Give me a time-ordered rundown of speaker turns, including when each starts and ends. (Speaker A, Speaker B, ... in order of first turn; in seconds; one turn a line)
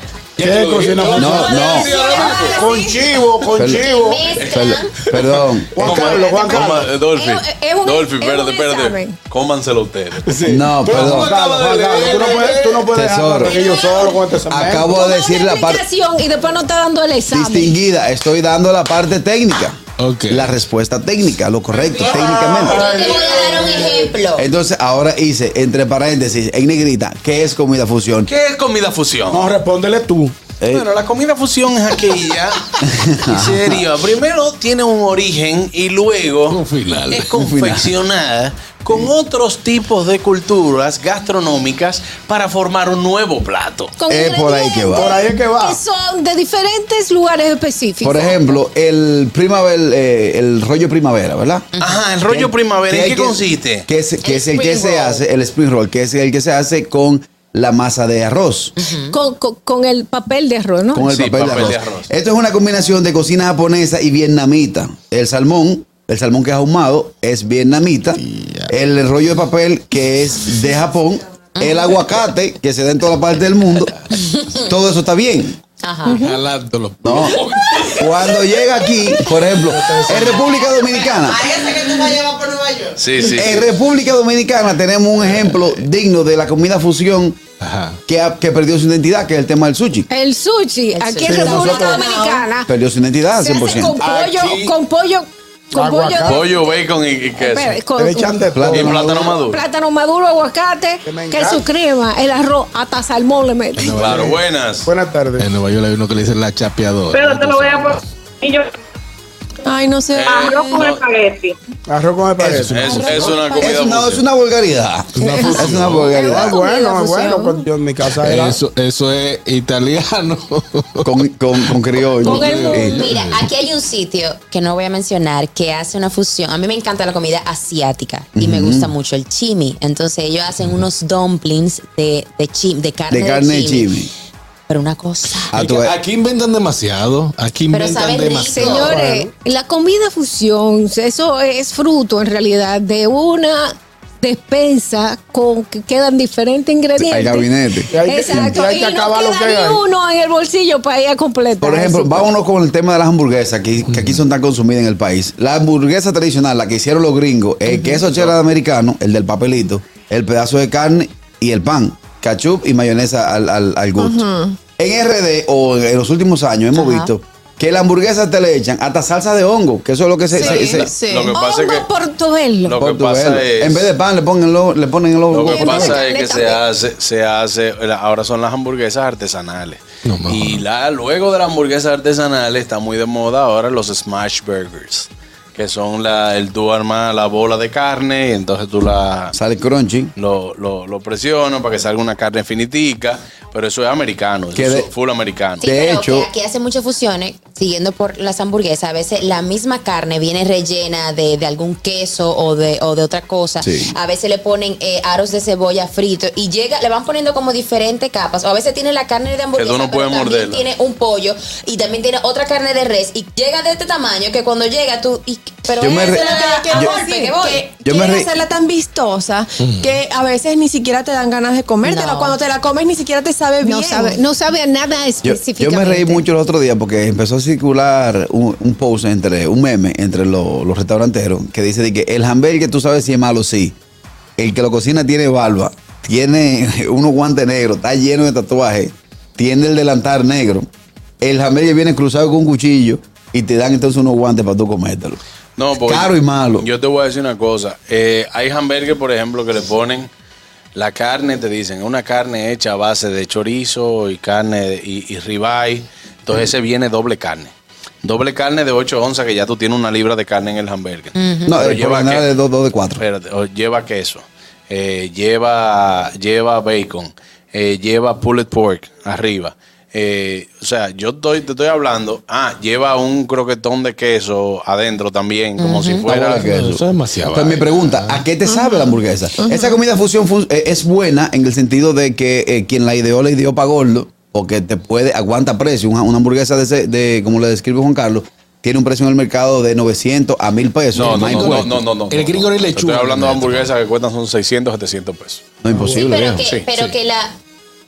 Speaker A: 0.4-2.6
Speaker B: 0.4-1.6
Speaker C: 1.1-1.9
Speaker D: 1.6-3.0
Speaker B: 2.5-4.3
Speaker C: 3.5-3.8
Speaker E: 3.6-4.9
Speaker F: 4.4-4.6
Speaker C: 4.4-5.9
Speaker B: 5.7-6.9
Speaker F: 5.8-10.4
Speaker D: 7.1-9.2
Speaker A: 10.2-12.9
Speaker C: 10.4-11.4
Speaker B: 11.2-14.9
Speaker C: 12.9-13.6
Speaker D: 13.5-14.2
Speaker C: 14.5-15.8
Speaker D: 14.8-17.8
Speaker C: 17.3-19.8
Speaker A: 20.0-20.5
Speaker C: 20.3-22.9
Speaker A: 22.1-22.6
Speaker E: 22.1-24.5
Speaker B: 22.7-23.6
Speaker C: 24.3-28.3
Speaker F: 28.3-29.5
Speaker B: 29.3-30.4
Speaker C: 30.6-30.9
Speaker F: 30.7-32.6
Speaker C: 32.8-33.8
Speaker F: 33.3-43.9
Speaker A: 36.5-37.3
Speaker C: 37.3-37.9
Speaker D: 44.0-48.6
Speaker C: 44.1-45.1
Speaker B: 44.9-45.8
Speaker C: 48.0-51.7
Speaker E: 51.7-52.0
Speaker F: 51.8-53.9
Speaker C: 52.3-58.7
Speaker E: 54.2-55.2
Speaker E: 58.8-59.1
Speaker D: 59.1-61.1
Speaker C: 60.9-74.0
Speaker F: 61.1-62.1
Speaker A: 68.2-68.7
Speaker E: 71.6-71.9
Speaker E: 74.1-74.7
Speaker C: 74.6-75.6
Speaker E: 75.8-76.2
Speaker A: 76.0-78.2
Speaker D: 76.1-76.4
Speaker C: 77.0-77.4
Speaker C: 78.0-81.4
Speaker B: 79.6-80.4
Speaker E: 80.3-82.9
Speaker F: 83.0-83.7
Speaker C: 83.2-87.4
Speaker A: 85.2-85.8
Speaker A: 87.6-88.0
Speaker C: 88.1-90.1
Speaker D: 90.1-92.7
Speaker E: 90.9-92.0
Speaker B: 91.2-92.1
Speaker G: 92.1-92.4
Speaker C: 92.7-94.0
Speaker D: 93.3-96.7
Speaker A: 94.0-94.8
Speaker B: 95.7-96.4
Speaker F: 96.3-97.8
Speaker D: 97.3-98.4
Speaker B: 98.0-99.0
Speaker C: 98.5-99.4
Speaker F: 98.7-99.6
Speaker D: 99.3-104.0
Speaker B: 101.0-101.6
Speaker A: 103.8-104.3
Speaker F: 103.8-104.9
Speaker B: 104.0-105.5
Speaker A: 105.4-108.0
Speaker H: 107.1-108.7
Speaker G: 109.6-110.8
Speaker F: 110.1-111.1
Speaker H: 110.4-111.5
Speaker B: 111.9-113.4
Speaker A: 112.5-113.2
Speaker F: 112.7-114.3
Speaker G: 113.0-113.6
Speaker C: 113.5-116.5
Speaker A: 115.2-116.3
Speaker D: 115.2-115.6
Speaker F: 115.5-116.1
Speaker E: 116.1-116.6
Speaker B: 116.2-118.6
Speaker G: 116.4-117.5
Speaker A: 118.0-123.5
Speaker C: 121.0-123.1
Speaker D: 122.2-122.8
Speaker E: 122.3-133.9
Speaker C: 128.3-128.9
Speaker C: 133.1-134.1
Speaker E: 134.7-135.5
Speaker C: 135.5-136.0
Speaker A: 135.5-138.8
Speaker E: 137.7-138.9
Speaker D: 138.5-152.3
Speaker B: 138.8-139.3
Speaker C: 147.0-148.5
Speaker B: 147.9-149.8
Speaker C: 151.6-170.9
Speaker E: 157.7-158.0
Speaker E: 166.8-167.1
Speaker D: 170.4-170.8
Speaker F: 170.4-171.9
Speaker D: 171.3-172.8
Speaker F: 172.6-173.9
Speaker C: 172.8-176.0
Speaker F: 175.3-189.3
Speaker D: 175.4-176.6
Speaker A: 180.1-180.6
Speaker C: 189.3-190.1
Speaker F: 190.2-195.6
Speaker C: 194.5-194.9
Speaker C: 195.6-196.3
Speaker E: 195.6-217.7
Speaker C: 203.6-203.9
Speaker F: 209.5-210.6
Speaker G: 215.7-224.2
Speaker C: 215.8-217.0
Speaker C: 217.8-218.3
Speaker A: 219.6-219.9
Speaker E: 221.8-222.4
Speaker D: 223.6-226.2
Speaker C: 225.2-233.7
Speaker C: 234.4-240.7
Speaker C: 241.2-245.2
Speaker F: 245.6-250.1
Speaker C: 245.8-246.7
Speaker F: 250.7-257.5
Speaker F: 258.0-262.3
Speaker E: 261.1-261.6
Speaker C: 261.5-263.0
Speaker F: 262.9-276.5
Speaker E: 275.6-276.1
Speaker C: 276.0-291.8
Speaker A: 276.4-278.2
Speaker A: 290.9-293.7
Speaker F: 290.9-295.4
Speaker C: 295.6-296.4
Speaker E: 295.8-297.4
Speaker A: 296.7-297.0